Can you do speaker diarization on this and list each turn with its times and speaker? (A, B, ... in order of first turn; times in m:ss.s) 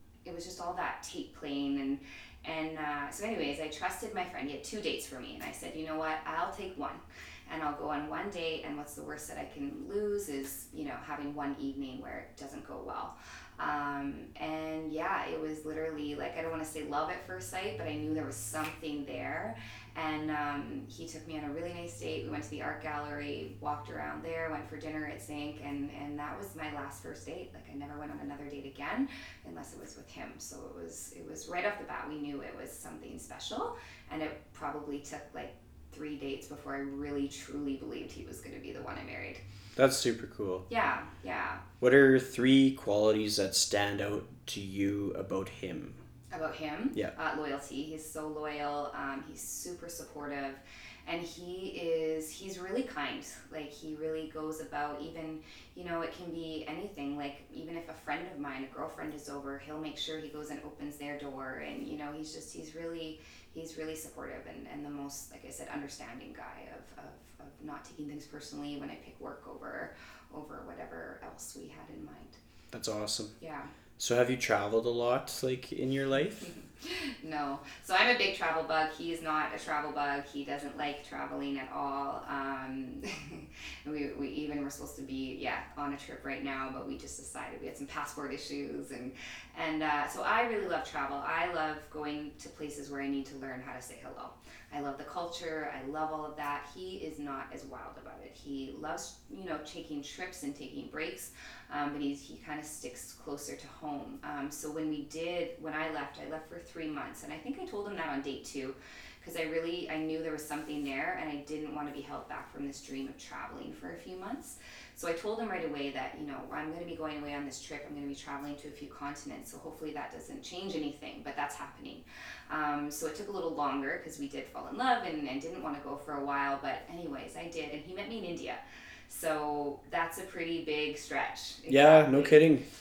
0:00.2-0:39.4 A
0:39.8-0:40.6 B
0:40.7-0:41.6 A
0:41.8-0:46.0 B
0:46.3-1:12.4 A
1:12.7-1:13.3 B
1:13.4-1:13.7 A
1:14.0-1:16.5 B
1:16.8-2:12.4 A
2:11.7-2:12.6 B